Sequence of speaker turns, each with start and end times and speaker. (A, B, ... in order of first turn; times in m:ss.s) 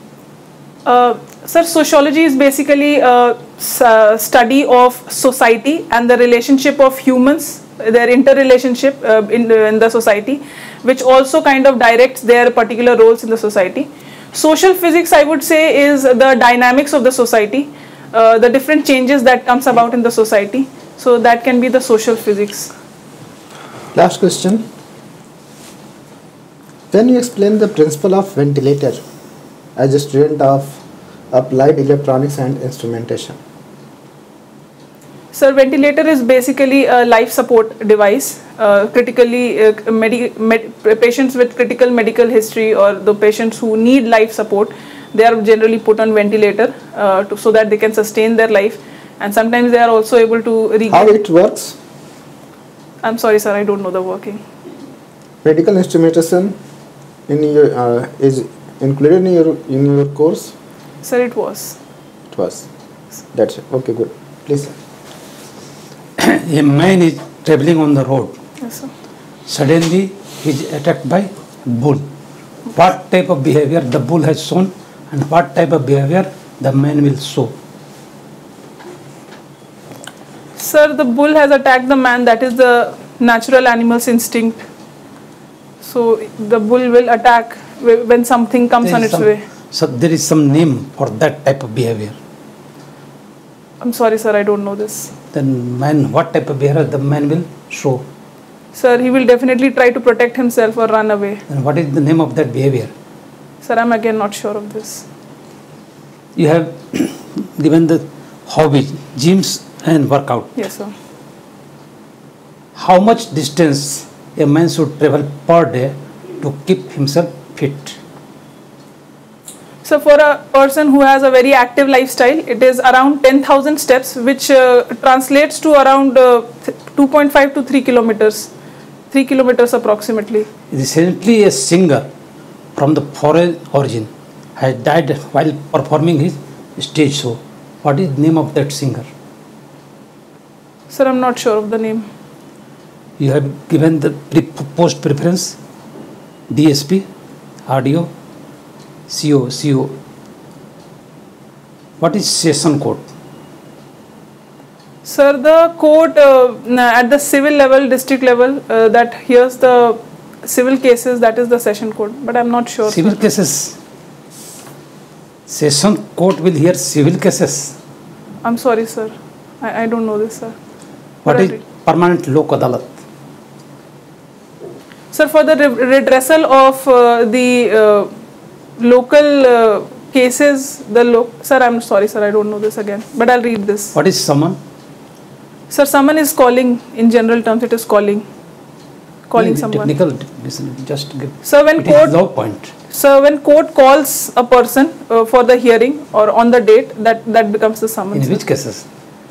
0:00.8-0:22.7 A
0:23.9-0:24.6 B
0:26.9-0:29.0 B
0:29.8-0:30.8 B
0:31.3-0:33.4 B
0:35.3-0:51.2 A
0:50.9-0:51.8 B
0:53.0-0:54.4 A
0:55.4-0:56.6 B
0:57.3-1:00.5 B
1:01.0-1:01.8 A
1:02.3-1:02.6 B
1:03.3-1:04.8 B
1:06.2-1:08.4 C
1:08.6-1:08.9 A
1:09.5-1:12.1 C
1:12.7-1:17.5 C
1:20.6-1:24.6 A
1:25.8-1:29.4 A
1:28.8-1:32.2 C
1:33.8-1:35.1 A
1:35.3-1:38.0 C
1:38.7-1:41.4 A
1:41.5-1:42.9 C
1:43.6-1:45.0 A
1:46.4-1:50.5 C
1:50.6-1:50.9 A
1:52.7-1:58.0 C
1:59.8-2:08.5 A
2:09.1-2:10.5 A
2:10.7-2:12.1 C
2:12.8-2:19.1 C
2:20.9-2:22.1 A
2:23.2-2:25.6 C
2:26.5-2:27.0 C
2:27.7-2:28.1 C
2:29.1-2:30.0 C
2:32.0-2:33.0 C
2:35.0-2:43.2 A
2:42.9-2:43.8 C
2:45.5-2:47.7 C
2:48.4-2:50.5 A
2:51.2-2:53.0 C
2:51.2-2:51.6 A
2:55.1-2:58.1 A
2:58.8-3:04.0 A
3:03.9-3:04.6 C
3:05.7-3:08.2 A
3:09.3-3:09.9 A
3:09.4-3:12.7 C
3:11.4-3:12.1 A
3:12.9-3:18.4 A
3:18.1-3:18.8 C